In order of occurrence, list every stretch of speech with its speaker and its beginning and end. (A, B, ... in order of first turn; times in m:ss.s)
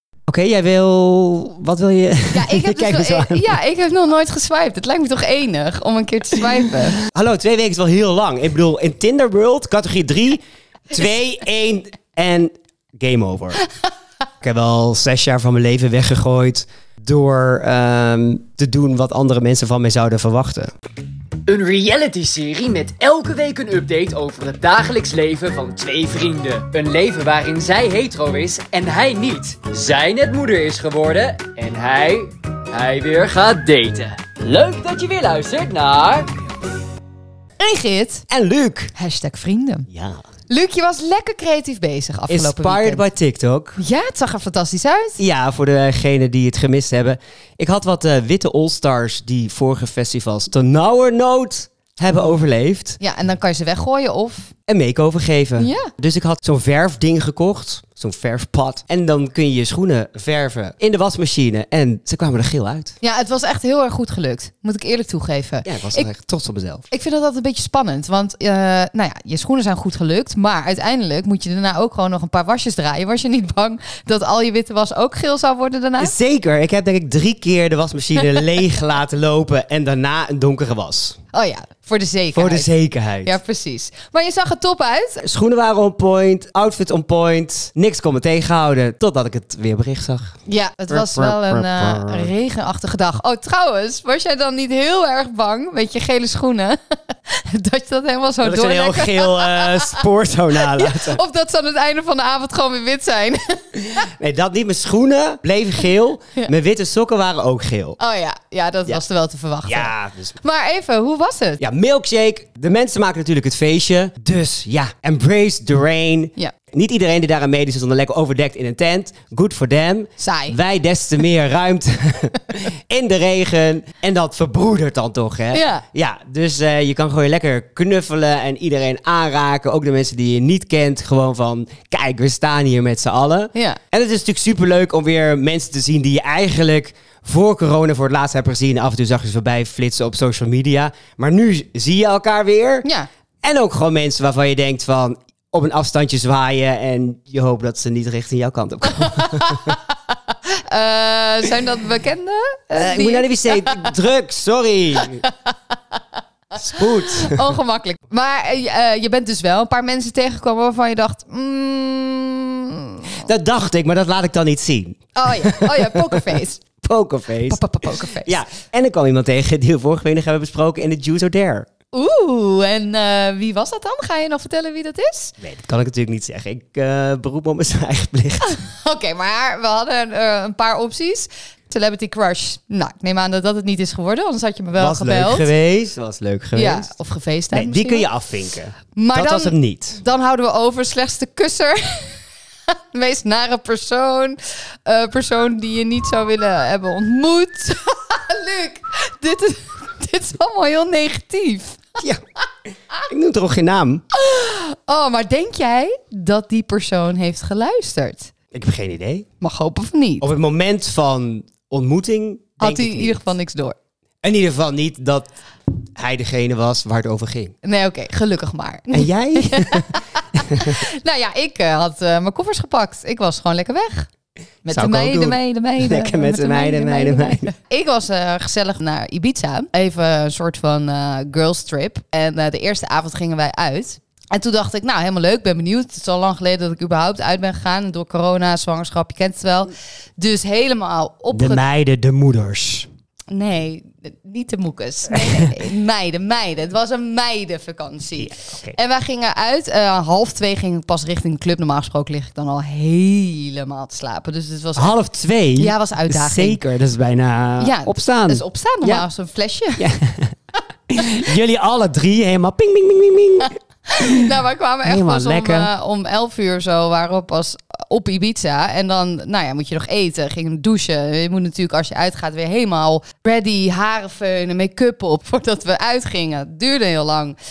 0:00.3-0:03.5 A
0:02.3-0:07.0 B
0:07.0-0:13.6 A
0:14.4-0:20.7 A
0:21.5-0:36.3 C
0:37.6-0:38.2 B
0:38.3-0:38.9 A
0:39.0-0:39.9 B
0:39.9-0:40.2 A
0:40.5-0:43.0 B
0:42.3-0:43.8 A
0:43.8-0:45.2 B
0:45.2-0:53.0 A
0:53.0-0:54.5 B
0:54.7-1:03.0 A
0:55.6-0:55.9 B
1:03.0-1:06.1 B
1:05.6-1:06.9 A
1:06.9-1:16.1 B
1:16.0-1:21.2 A
1:21.3-1:22.7 B
1:22.4-1:23.4 A
1:23.2-1:25.2 B
1:25.2-1:30.4 A
1:30.5-1:40.0 B
1:30.9-1:32.3 A
1:38.4-1:41.2 A
1:40.6-1:44.1 B
1:43.9-1:48.0 A
1:48.0-1:51.6 B
1:49.7-1:50.4 A
1:51.6-2:22.8 A
2:00.2-2:00.6 B
2:05.5-2:05.8 B
2:13.5-2:13.8 B
2:23.4-2:29.8 A
2:28.9-2:29.8 B
2:30.5-2:33.9 B
2:32.8-2:35.2 A
2:35.2-2:36.0 B
2:36.6-2:37.5 A
2:36.7-2:43.3 B
2:43.2-2:51.7 A
2:45.2-2:46.6 B
2:47.5-2:48.4 B
2:51.9-2:55.3 B
2:55.4-2:58.6 A
2:58.4-3:05.5 B
3:04.8-3:06.9 A
3:06.6-3:08.1 B
3:07.5-3:10.0 A
3:09.0-3:12.2 B
3:12.7-3:22.0 B
3:23.1-3:24.0 A
3:24.1-3:28.3 B
3:28.5-3:29.3 A
3:29.4-3:30.2 B
3:30.2-3:33.2 A
3:32.6-3:33.8 B
3:34.2-3:35.3 A
3:36.0-3:37.5 A
3:37.6-3:44.1 B
3:38.9-3:40.9 A
3:44.6-4:01.6 B
3:44.7-3:47.5 A
4:01.3-4:02.9 A
4:03.3-4:15.0 B
4:05.1-4:05.5 A
4:08.2-4:08.8 A
4:14.8-4:19.0 A
4:15.6-4:16.6 B
4:17.6-4:19.8 B
4:19.8-4:20.4 A
4:20.9-4:24.3 A
4:23.9-4:37.4 B
4:24.8-4:25.7 A